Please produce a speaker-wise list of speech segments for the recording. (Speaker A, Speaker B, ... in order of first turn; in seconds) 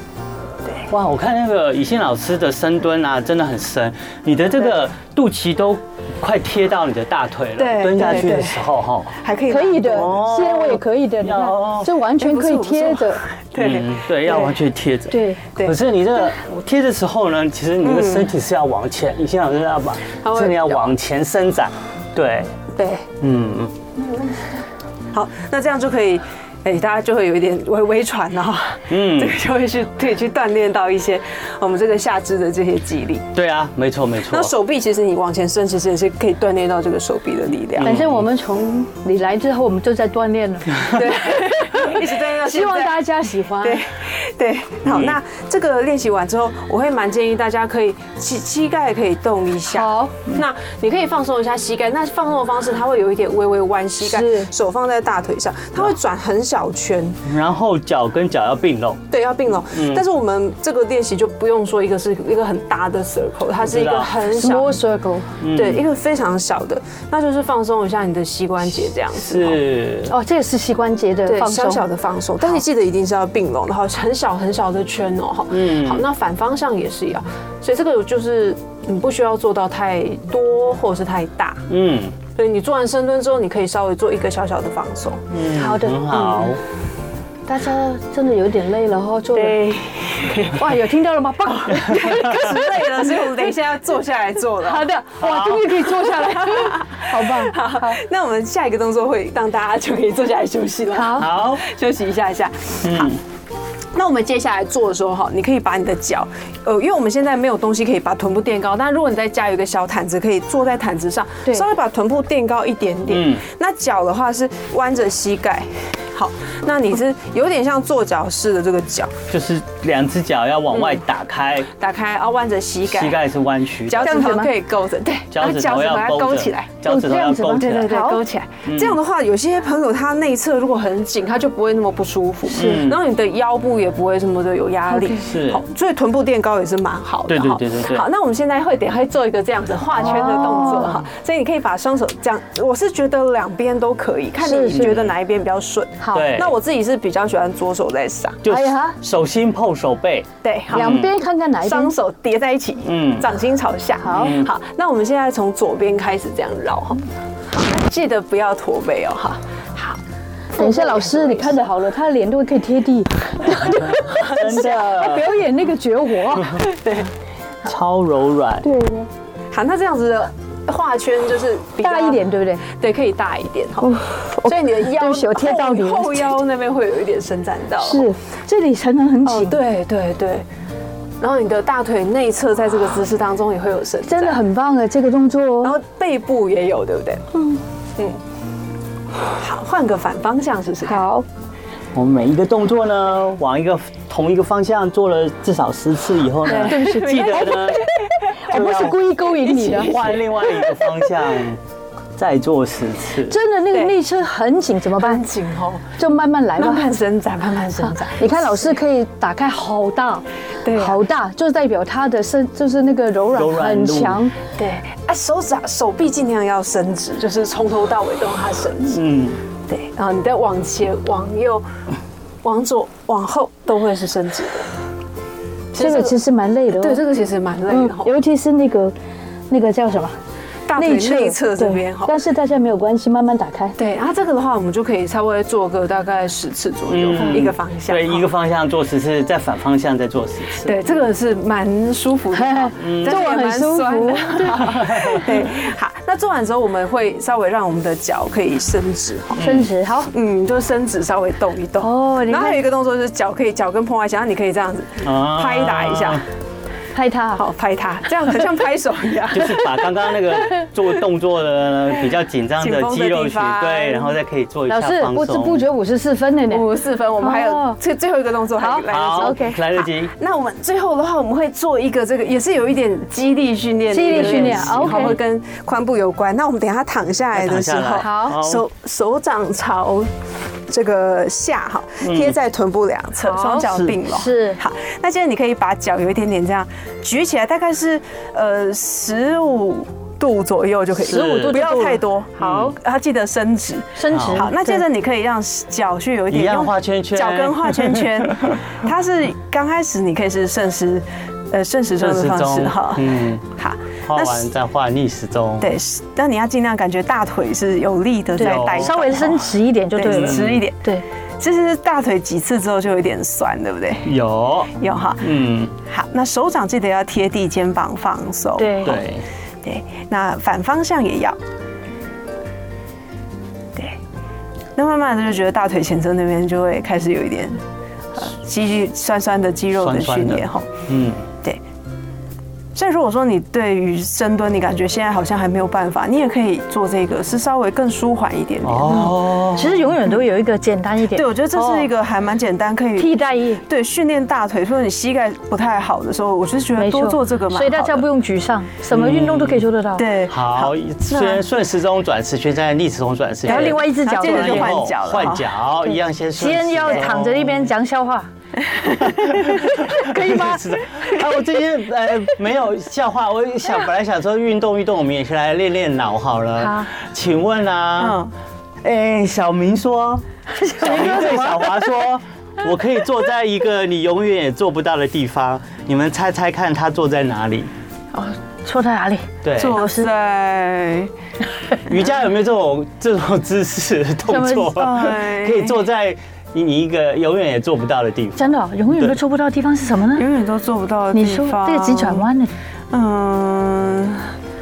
Speaker A: 0.9-9.2, 9.8-11.9, 13.6-22.5, 23.2-23.7, 28.9-29.4, 33.3-34.5, 37.7-38.3, 44.8-45.2, 57.2-59.1, 59.7-60.0, 63.6-64.1, 65.4-65.8, 69.1-70.1, 75.5-76.0, 81.7-82.2, 85.3-86.6, 92.0-92.4, 95.2-95.7, 101.2-101.6, 102.8-103.2, 113.1-113.4, 119.3-121.7, 122.9-124.2, 125.3-127.9, 128.7-129.0, 132.5-133.0, 135.2-135.6, 137.3-138.1, 144.8-145.1, 146.1-146.5, 148.4-151.1, 152.8-153.3, 154.2-154.5, 164.2-165.3, 167.6-168.7, 191.9-197.8, 198.5-199.0, 199.7-201.6, 202.2-203.3, 213.3-214.2, 218.9-219.4, 236.9-240.8, 242.8-243.3, 244.6-245.2, 249.4-249.7, 255.0-256.2, 259.3-265.6, 268.9-270.1, 274.0-275.2, 277.3-278.6, 282.0-282.4, 291.0-291.6, 292.4-292.8, 294.1-294.4, 296.3-298.5, 302.0-303.4, 304.1-305.7, 308.4-309.5, 310.1-310.6, 314.0-315.7, 318.8-319.2, 329.8-331.2, 338.6-339.9, 348.9-349.6, 350.3-357.7, 359.0-368.2, 368.8-370.2, 370.8-377.7, 379.4-379.8, 381.9-389.2
Speaker B: 7.6-8.6, 9.2-10.2, 12.2-14.6, 17.8-18.3, 20.2-20.9, 22.7-23.1, 25.1-33.3, 34.2-38.0, 40.8-43.0, 43.6-57.2, 59.1-64.8, 65.5-69.6, 71.2-81.7, 82.3-85.2, 89.3-90.6, 91.5-94.9, 95.9-103.1, 103.9-119.2, 120.7-121.0, 121.8-123.2, 123.9-148.4, 150.4-151.0, 151.6-160.0, 160.6-161.6, 163.9-165.0, 166.6-167.1, 169.5-173.9, 174.4-178.1, 179.2-180.4, 181.2-184.4, 185.6-187.3, 189.3-191.0, 196.4-197.9, 198.5-201.1, 203.7-203.9, 205.0-205.9, 206.6-208.8, 210.6-211.0, 214.6-219.0, 219.7-221.7, 222.4-224.7, 225.7-226.1, 226.7-228.1, 230.7-232.2, 233.8-238.3, 240.6-249.4, 250.1-256.2, 257.4-259.6, 262.6-264.1, 266.5-280.1, 280.7-304.5, 305.6-309.4, 309.9-310.8, 311.4-314.1, 314.8-319.0, 319.6-321.4, 324.8-327.6, 328.1-330.7, 332.7-339.1, 341.1-348.1, 349.9-351.4, 353.4-355.5, 358.6-359.5, 368.0-368.3, 379.6-381.1, 384.6-385.8, 390.1-392.2, 392.9-394.3
Speaker C: 9.5-13.2, 15.1-15.4, 37.8-43.8, 49.6-50.1, 54.0-54.5, 64.2-65.3, 70.1-71.8, 85.5-86.5, 87.5-89.6, 90.5-92.7, 94.6-98.0, 100.9-101.3, 124.0-124.5, 126.8-128.2, 132.5-132.9, 134.9-135.2, 140.0-141.0, 144.4-144.9, 146.0-146.3, 148.4-149.0, 150.7-151.9, 154.0-154.4, 160.6-166.6, 168.6-169.1, 171.8-172.6, 173.8-176.4, 177.8-179.6, 184.1-185.8, 187.3-187.6, 190.8-191.2, 196.5-199.9, 203.3-205.2, 206.0-206.9, 207.8-214.3, 225.7-227.0, 227.7-228.9, 229.5-230.2, 230.8-233.7, 242.3-245.5, 249.4-250.1, 251.8-252.6, 256.9-257.4, 264.7-266.7, 267.2-267.8, 268.6-269.6, 273.9-275.1, 278.0-278.4, 283.2-284.6, 291.0-292.0, 293.9-294.8, 308.4-311.0, 318.6-319.0, 338.9-341.9, 343.0-343.6, 346.8-350.1, 353.4-354.7, 356.4-358.3, 359.2-360.6, 366.6-366.9, 370.5-371.9, 378.1-380.1, 384.3-384.9, 388.4-390.3, 391.1-392.5